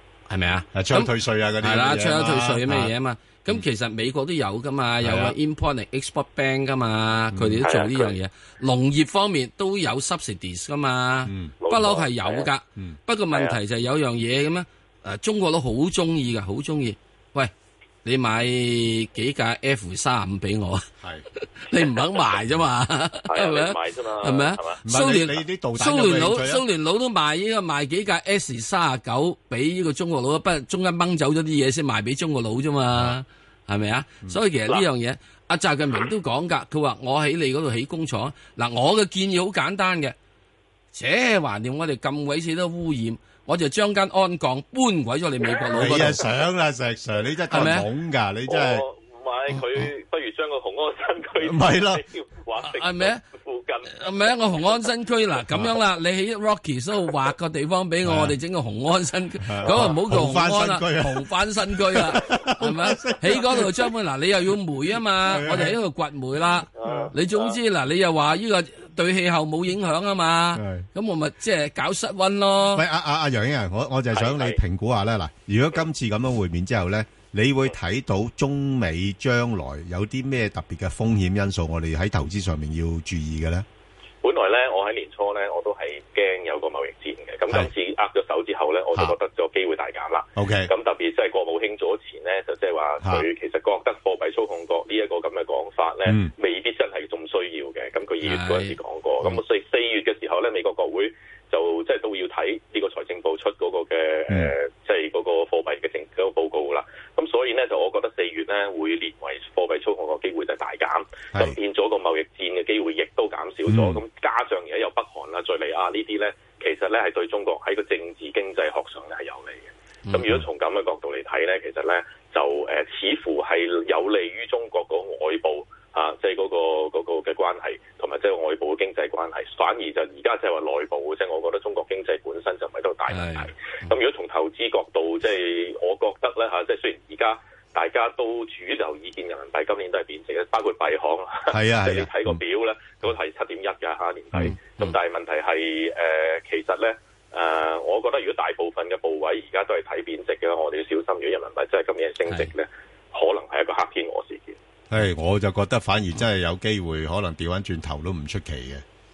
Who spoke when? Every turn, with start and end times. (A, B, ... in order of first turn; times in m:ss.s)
0:00.3-0:17.5 A
0:00.7-0:02.9 B
0:05.0-0:05.4 B
0:07.3-0:07.6 B
0:07.6-0:08.2 C
0:11.3-0:11.5 B
0:11.6-0:12.5 C
0:13.3-0:13.6 C
0:18.0-0:20.9 A
0:21.6-0:40.2 A
0:23.3-0:24.8 C
0:24.8-0:26.6 B
0:32.9-0:33.2 B
0:40.9-0:46.2 A
0:45.8-0:48.8 B
0:47.5-0:47.9 A
0:48.5-0:54.8 C
0:51.4-0:52.0 B
0:52.6-0:53.2 A
0:54.0-1:12.8 A
0:58.0-0:58.3 B
0:59.4-1:03.7 B
1:05.2-1:05.7 B
1:06.8-1:07.6 C
1:10.6-1:10.8 B
1:12.7-1:23.6 B
1:14.1-1:14.6 C
1:24.2-2:34.6 C
1:30.4-1:30.7 B
1:36.1-1:36.3 B
1:38.2-1:38.8 A
1:53.7-1:54.0 B
2:13.1-2:13.5 A
2:21.5-2:22.4 B
2:24.4-2:25.0 A
2:34.9-2:38.8 B